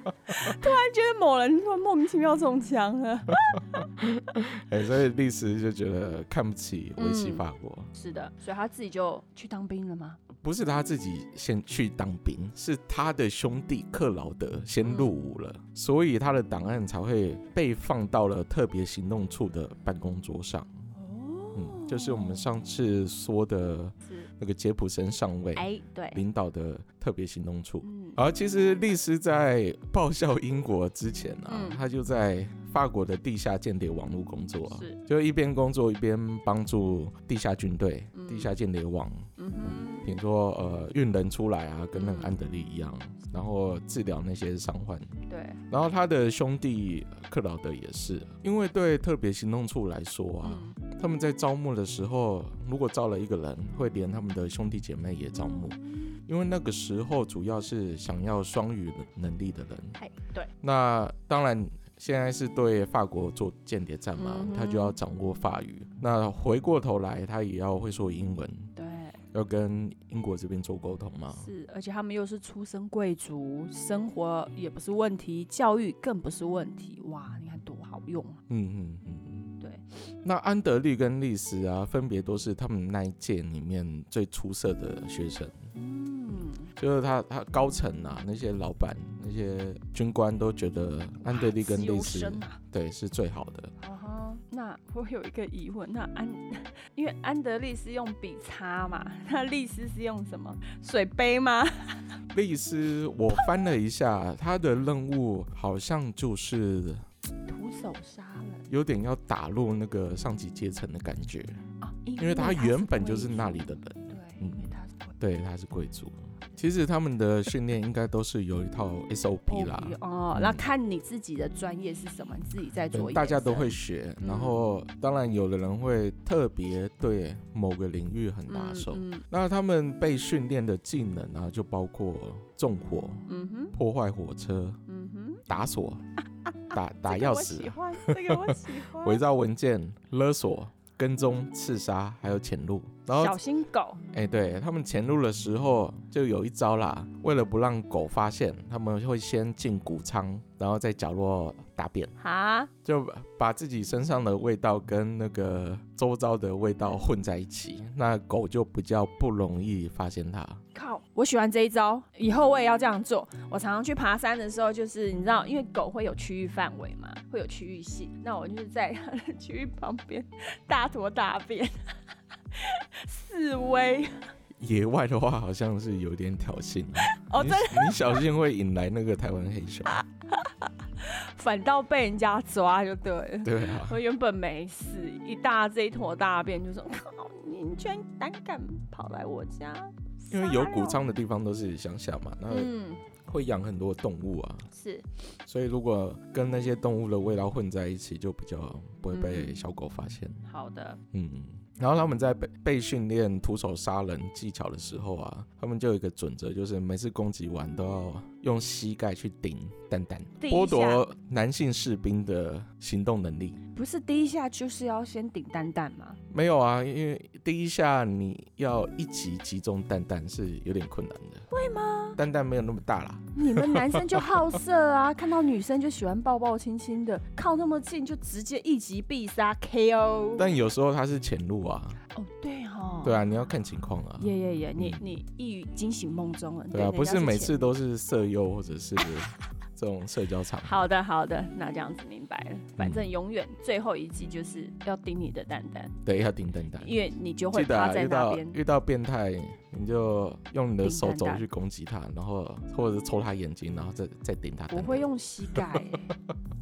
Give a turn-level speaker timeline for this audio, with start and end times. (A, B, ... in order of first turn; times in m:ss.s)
0:00.3-0:03.8 A
0:03.5-0:07.9 B
0:07.0-0:07.4 A
0:07.9-0:10.2 A
0:10.3-0:20.7 B
0:14.8-0:15.1 A
0:20.9-0:22.5 A
0:21.6-0:45.2 B
0:25.6-0:26.2 A
0:27.8-0:28.2 A
0:31.5-0:31.8 A
0:34.7-0:35.0 A
0:38.1-0:38.5 A
0:39.4-0:40.1 A
0:41.9-0:42.4 A
0:45.3-0:45.6 A
0:45.7-1:00.0 B
0:50.4-0:50.8 A
0:55.4-0:56.2 A
1:00.0-1:00.5 A
1:00.6-1:08.7 B
1:04.2-1:05.0 A
1:08.8-1:09.2 A
1:09.3-1:11.5 B
1:11.3-1:18.4 A
1:18.5-1:19.5 B
1:20.1-1:25.6 B
1:25.7-1:26.7 A
1:26.8-1:33.7 B
1:31.2-1:32.6 A
1:33.8-1:42.1 A
1:42.3-1:47.0 B
1:47.4-1:48.7 A
1:48.7-1:51.6 B
1:51.8-1:55.1 A
1:52.2-2:00.6 B
1:59.5-2:04.6 A
2:02.9-2:14.8 B
2:08.5-2:09.2 A
2:13.3-2:13.7 A
2:14.9-2:15.4 A
2:15.5-2:16.0 B
2:16.4-2:19.2 A
2:16.7-2:23.4 B
2:23.2-2:24.0 A
2:24.1-2:32.1 B
2:32.2-2:32.7 A
2:32.8-2:40.6 B
2:40.7-2:51.8 A
2:52.5-2:54.3 A
2:54.6-3:00.0 B
2:57.0-2:58.2 A
2:59.9-3:11.0 A
3:03.4-3:04.0 B
3:10.3-3:12.7 B
3:12.5-3:13.0 A
3:13.2-3:14.7 B
3:14.7-3:15.0 A
3:15.4-3:20.4 B
3:19.1-3:19.6 A
3:20.5-3:21.0 A
3:21.1-3:33.6 B
3:30.4-3:31.0 A
3:33.7-3:36.2 A
3:36.3-3:41.4 B
3:41.5-3:42.2 A
3:42.2-3:44.4 B
3:43.3-3:50.5 A
3:50.4-3:52.0 B
3:52.1-3:53.2 A
3:53.0-3:55.0 B
3:54.2-3:57.7 A
3:56.7-4:00.8 B
4:00.6-4:06.0 A
4:02.8-4:03.1 B
4:06.0-4:07.0 B
4:06.8-4:08.6 A
4:07.5-4:16.0 B
4:10.8-4:11.4 A
4:14.7-4:16.1 A